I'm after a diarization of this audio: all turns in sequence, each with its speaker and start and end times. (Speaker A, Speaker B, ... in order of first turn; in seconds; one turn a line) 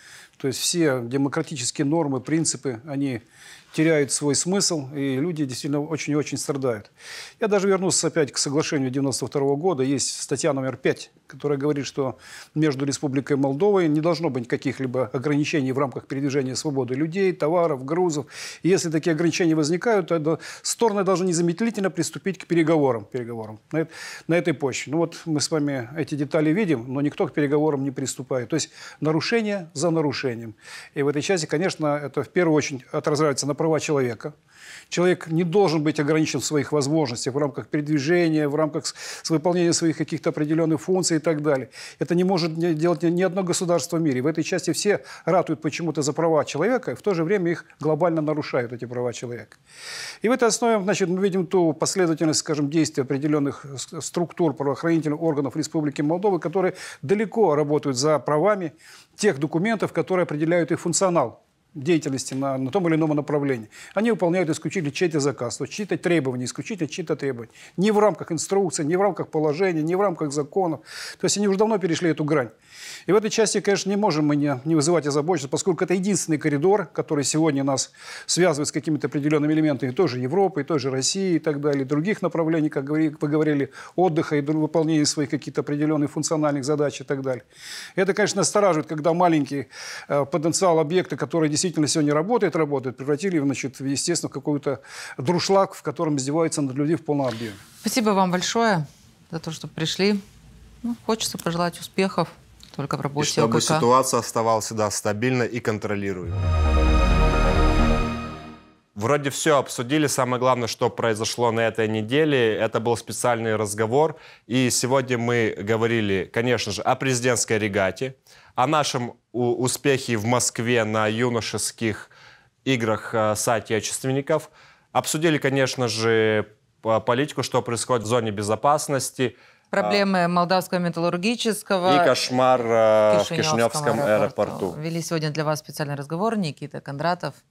Speaker A: 0.4-34.3
Speaker A: 34.9-49.6
Speaker A: 50.2-72.5
Speaker A: 73.1-87.4
Speaker A: 88.0-97.6
Speaker B: 97.8-100.2
Speaker B: 100.8-103.8
Speaker C: 103.2-106.5
Speaker C: 108.9-122.1
Speaker C: 122.6-130.0
Speaker B: 129.7-132.1
Speaker C: 131.8-134.8
Speaker B: 133.1-137.4